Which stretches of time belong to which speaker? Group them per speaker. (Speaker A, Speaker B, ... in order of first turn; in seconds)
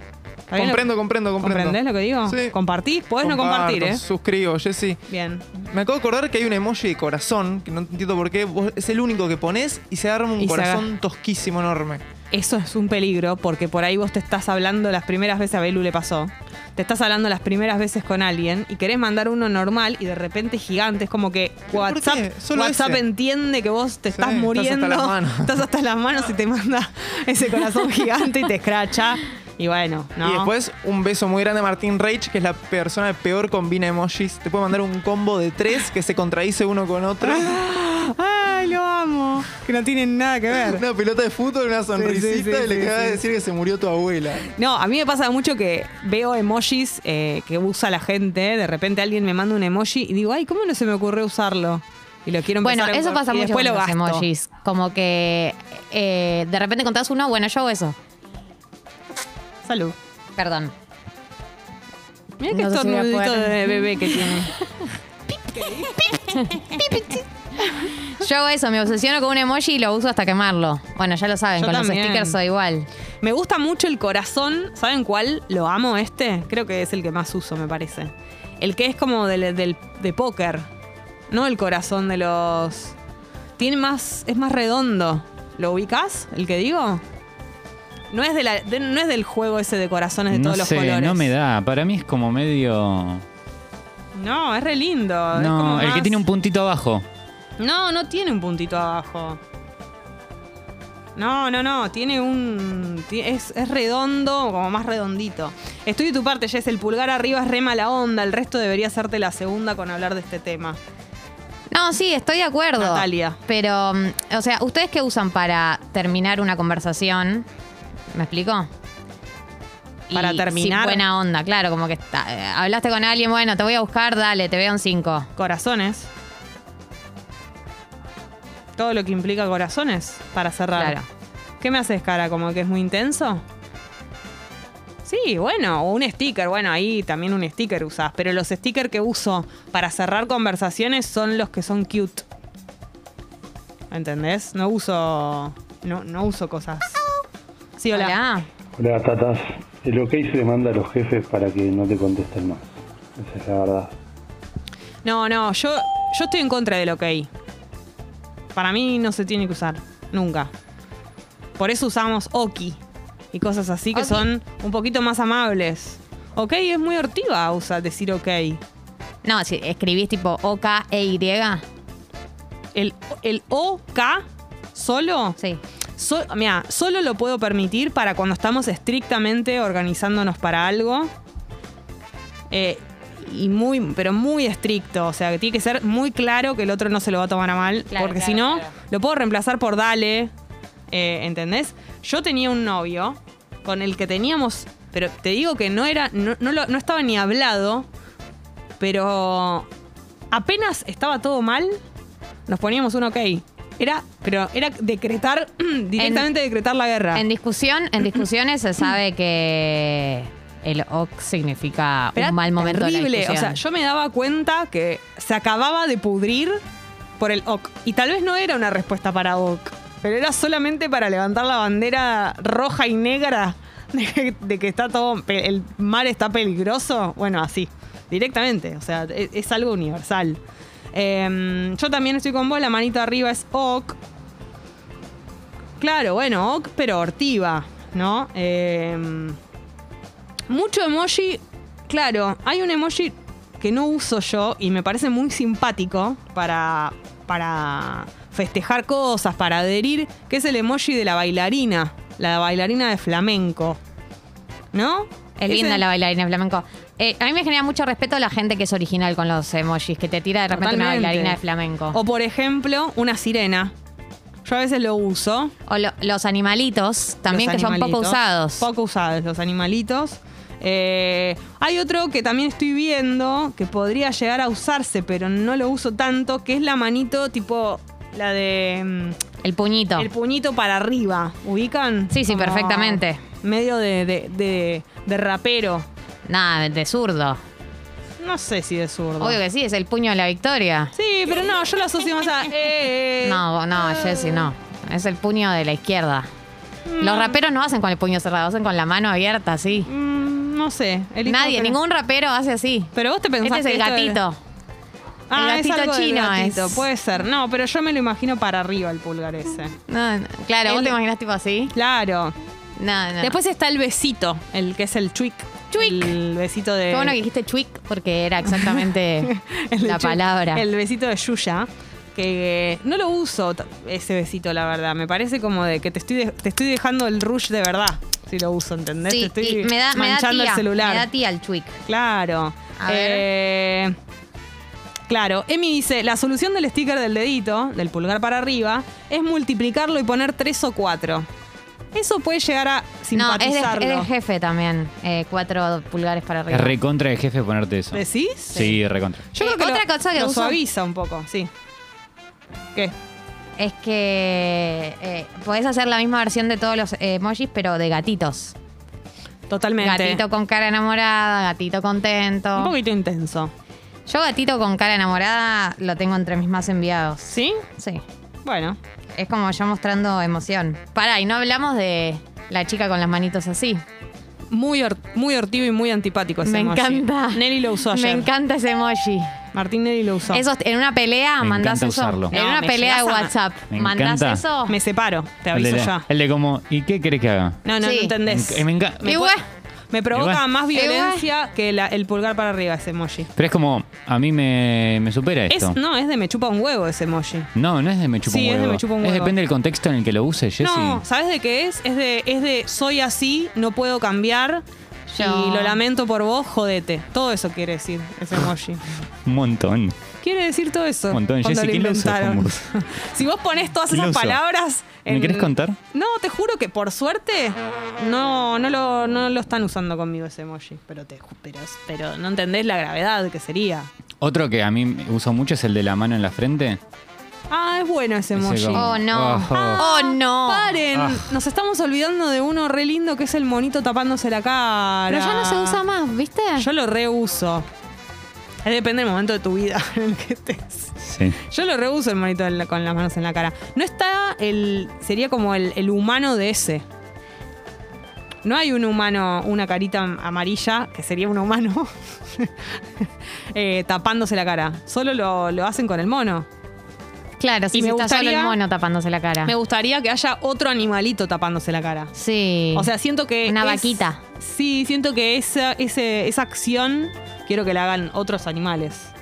Speaker A: 0.5-4.0, 5.1-5.5, 10.4-10.9, 12.3-30.5, 37.2-40.8, 42.0-43.2, 44.5-54.3, 59.6-60.0, 62.4-64.5, 65.4-67.9, 71.6-72.4, 73.2-80.7, 81.3-83.0, 83.6-87.0, 88.1-91.3, 94.2-96.2, 97.6-99.4, 101.2-110.8, 112.8-113.4, 120.1-121.0, 125.4-126.1, 128.8-131.0, 131.6-133.4, 135.1-142.2, 143.9-147.0, 147.8-148.2, 155.1-157.3, 158.6-160.5, 161.6-162.8, 163.3-168.6, 172.8-175.4, 176.0-181.1, 182.5-190.3, 190.9-197.9, 198.8-199.7, 200.3-201.8, 202.5-207.2, 212.2-216.6, 217.2-230.4, 230.9-234.0, 235.8-239.4, 240.5-253.8, 254.7-255.8, 260.5-261.4, 261.9-263.7, 264.4-265.5, 267.3-279.2, 280.0-285.9, 288.2-289.4, 290.9-294.5, 296.9-297.4, 299.9-301.8, 302.9-304.2, 305.3-309.8, 310.7-311.0, 311.7-312.4, 313.2-317.2, 318.5-331.1, 331.9-334.0, 335.1-341.3, 341.9-344.1, 347.9-348.8, 349.3-351.5, 359.5-360.2, 362.6-363.5, 367.3-367.6, 368.4-368.8, 374.5-378.3, 379.5-380.4, 382.3-383.3, 384.7-386.1, 387.6-389.3, 389.9-393.3, 395.5-397.5, 398.2-399.4, 400.6-404.6, 405.2-408.9, 410.2-423.9, 427.5-428.9, 429.5-435.8, 436.6-437.7, 438.6-446.9, 448.4-456.5, 457.7-458.6, 459.4-462.1, 462.7-469.1
Speaker B: 0.5-2.6, 3.2-5.0, 5.7-12.0, 21.7-23.0, 24.1-25.6, 30.2-37.6, 40.5-44.5
Speaker C: 52.6-58.0, 60.4-60.7, 62.5-64.7, 66.4-67.0, 68.0-72.9, 111.7-117.5, 118.1-118.7, 120.1-125.3, 130.8-131.1, 147.9-148.5, 163.9-164.2, 169.2-171.6, 187.9-188.7, 206.0-206.3, 207.1-213.6, 255.4-262.0, 265.7-268.7, 279.4-280.1, 282.1-283.2, 286.3-287.4, 289.2-290.9, 293.2-296.3, 297.0-299.9, 301.2-304.4, 305.3-306.9, 309.9-311.7, 312.8-313.4, 315.8-316.1, 316.9-320.6, 329.1-331.8, 332.8-333.3, 343.1-346.8, 349.4-350.6, 353.6-358.6, 359.8-362.8, 364.1-368.0, 369.1-373.8, 376.4-379.4, 380.3-384.8, 387.8-388.2, 389.0-389.4, 390.7-391.3, 405.1-405.8, 428.7-430.8, 435.1-436.7, 457.4-459.5, 462.1-462.9, 463.4-464.2
Speaker D: 90.3-93.2, 95.3-97.0, 346.5-349.2, 381.4-382.3, 383.7-384.4, 385.5-387.6, 388.3-389.2, 390.1-390.4, 393.4-395.8, 397.6-401.0, 409.2-410.0, 411.1-412.8, 413.9-414.4, 415.1-415.8, 424.2-426.8, 428.4-429.8, 430.9-431.3, 441.0-441.4
Speaker E: 148.8-153.9